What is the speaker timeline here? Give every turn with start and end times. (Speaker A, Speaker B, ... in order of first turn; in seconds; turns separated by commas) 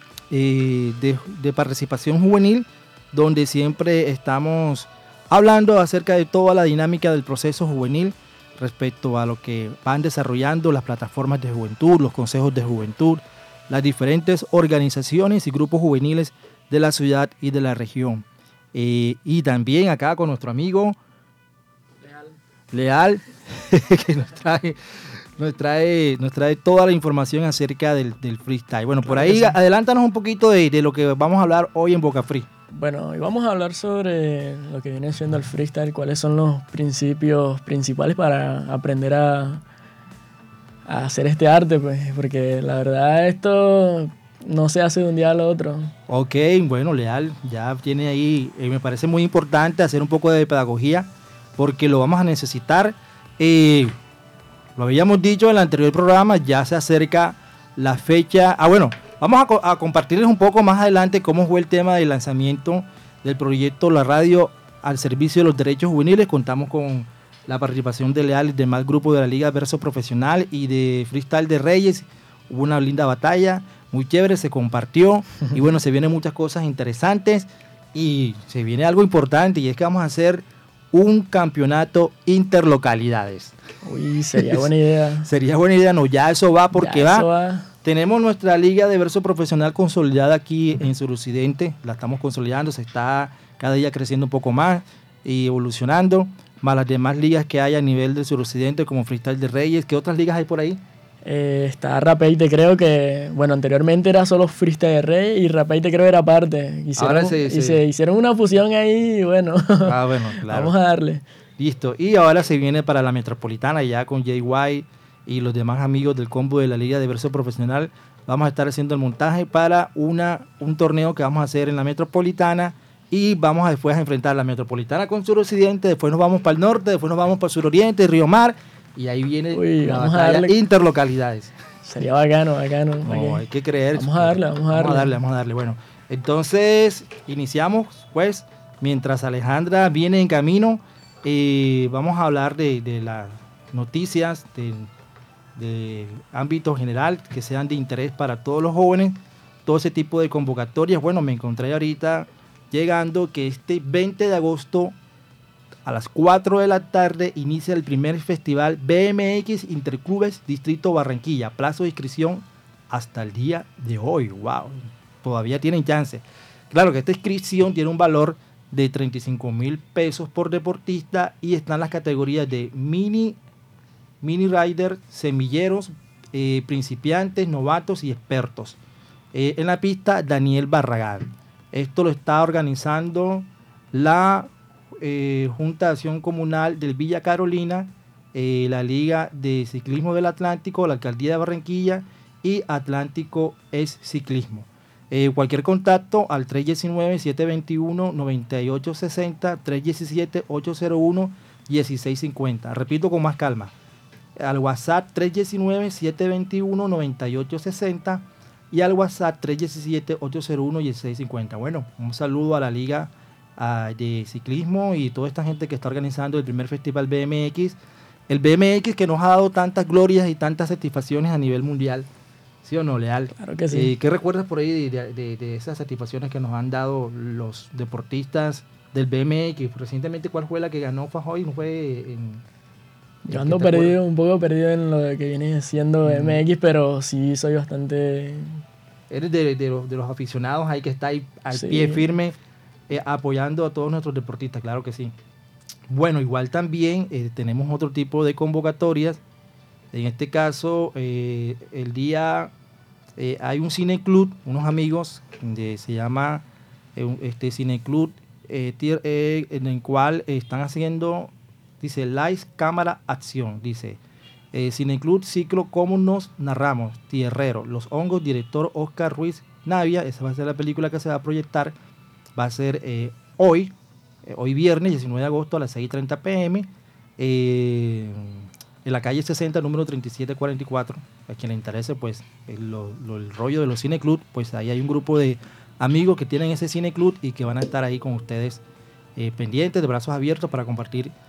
Speaker A: 0.3-21.0, Speaker A: 22.7-32.5, Speaker B: 29.1-29.6, Speaker B: 32.7-39.6, Speaker B: 40.9-45.9, Speaker A: 46.1-54.0, Speaker A: 54.8-83.5, Speaker B: 83.8-85.3, Speaker A: 84.4-84.7, Speaker A: 85.2-87.3, Speaker B: 86.8-87.7, Speaker A: 87.8-100.8, Speaker B: 101.2-111.2, Speaker A: 107.0-107.8, Speaker A: 109.8-110.7, Speaker A: 111.6-131.5, Speaker B: 129.5-130.6, Speaker B: 131.8-133.4, Speaker A: 133.1-144.9, Speaker B: 133.9-135.1, Speaker A: 145.6-155.0, Speaker A: 155.8-173.4, Speaker A: 174.2-178.8, Speaker A: 179.3-203.7, Speaker A: 204.4-217.8, Speaker A: 218.3-222.1, Speaker A: 222.6-232.4, Speaker B: 223.4-223.9, Speaker B: 233.2-238.6, Speaker A: 233.3-234.0, Speaker A: 236.0-236.4, Speaker A: 239.1-242.4, Speaker B: 241.5-242.1, Speaker A: 242.9-245.1, Speaker A: 245.9-249.2, Speaker A: 249.9-252.5, Speaker A: 253.2-264.0, Speaker A: 264.5-271.8, Speaker A: 272.4-288.6, Speaker A: 289.2-291.1